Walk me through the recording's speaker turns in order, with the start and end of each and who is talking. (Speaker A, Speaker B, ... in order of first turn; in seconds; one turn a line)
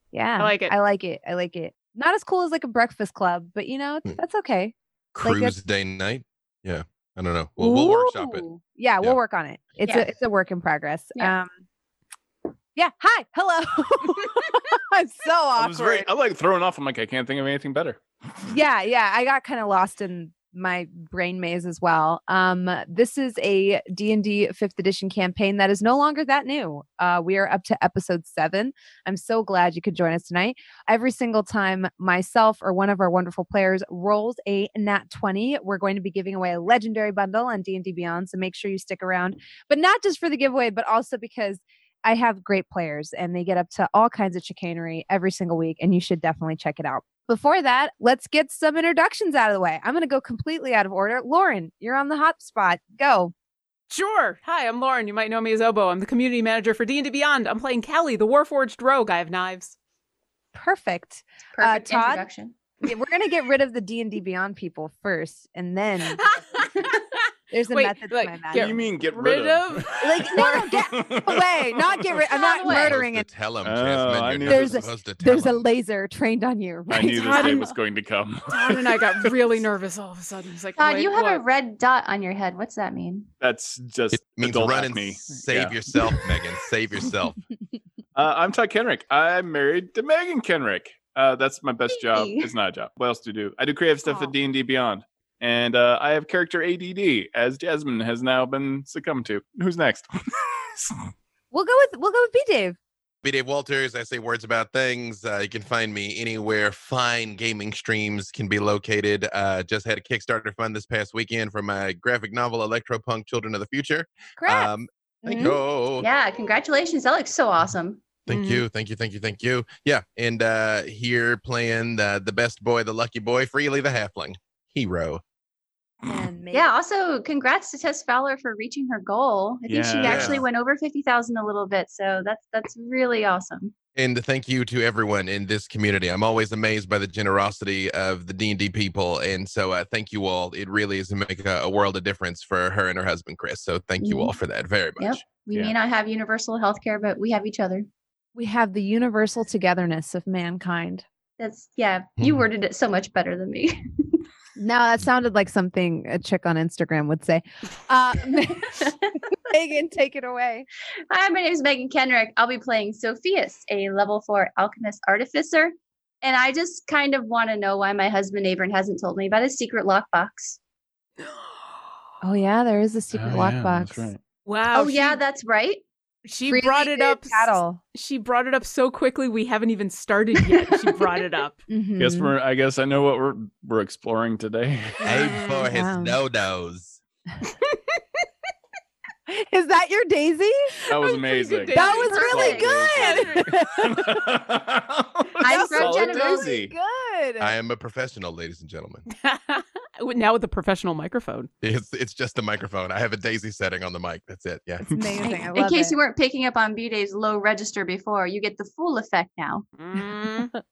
Speaker A: 0.1-5.6
Speaker B: 0.4-0.7
Speaker C: 5.1-8.4
Speaker A: 7.6-11.5
Speaker A: 12.7-16.1
Speaker D: 15.6-18.0
Speaker A: 18.5-53.3
Speaker B: 53.9-59.7
Speaker A: 60.5-62.3
Speaker E: 61.5-62.6
Speaker A: 62.8-66.2
Speaker B: 66.1-66.9
Speaker A: 67.5-68.7
Speaker B: 67.7-70.7
Speaker D: 68.5-72.2
Speaker A: 70.0-73.3
Speaker E: 72.3-72.9
Speaker C: 72.7-75.6
Speaker D: 73.6-74.8
Speaker A: 74.5-77.7
Speaker D: 76.9-79.4
Speaker B: 77.2-77.7
Speaker B: 78.5-81.4
Speaker E: 80.8-83.3
Speaker D: 83.4-86.2
Speaker C: 84.1-87.4
Speaker D: 88.1-100.9
Speaker E: 91.9-92.5
Speaker A: 101.5-102.8
Speaker C: 103.2-116.1
Speaker A: 114.4-114.7
Speaker A: 115.2-115.6
Speaker E: 115.4-118.0
Speaker C: 118.3-125.2
Speaker B: 118.3-118.6
Speaker A: 126.0-126.7
Speaker E: 126.5-133.7
Speaker D: 129.7-130.4
Speaker C: 130.0-130.4
Speaker C: 133.9-145.2
Speaker E: 144.0-144.3
Speaker E: 145.0-147.9
Speaker A: 148.3-151.0
Speaker E: 151.4-154.2
Speaker A: 154.6-160.7
Speaker E: 161.1-170.6
Speaker A: 172.2-174.1
Speaker D: 173.1-174.2
Speaker B: 174.4-175.2
Speaker E: 174.7-175.8
Speaker B: 176.2-181.6
Speaker A: 176.5-177.8
Speaker A: 181.7-182.3
Speaker D: 182.0-185.1
Speaker B: 185.0-185.7
Speaker C: 185.0-187.0
Speaker A: 185.7-186.2
Speaker A: 189.3-190.8
Speaker D: 190.9-196.7
Speaker B: 190.9-193.5
Speaker A: 191.7-194.2
Speaker E: 192.3-192.6
Speaker E: 195.4-196.5
Speaker A: 195.4-197.5
Speaker C: 197.4-199.1
Speaker B: 199.1-201.5
Speaker C: 201.6-204.8
Speaker A: 204.8-206.0
Speaker D: 204.9-205.2
Speaker E: 205.3-209.6
Speaker B: 209.8-210.5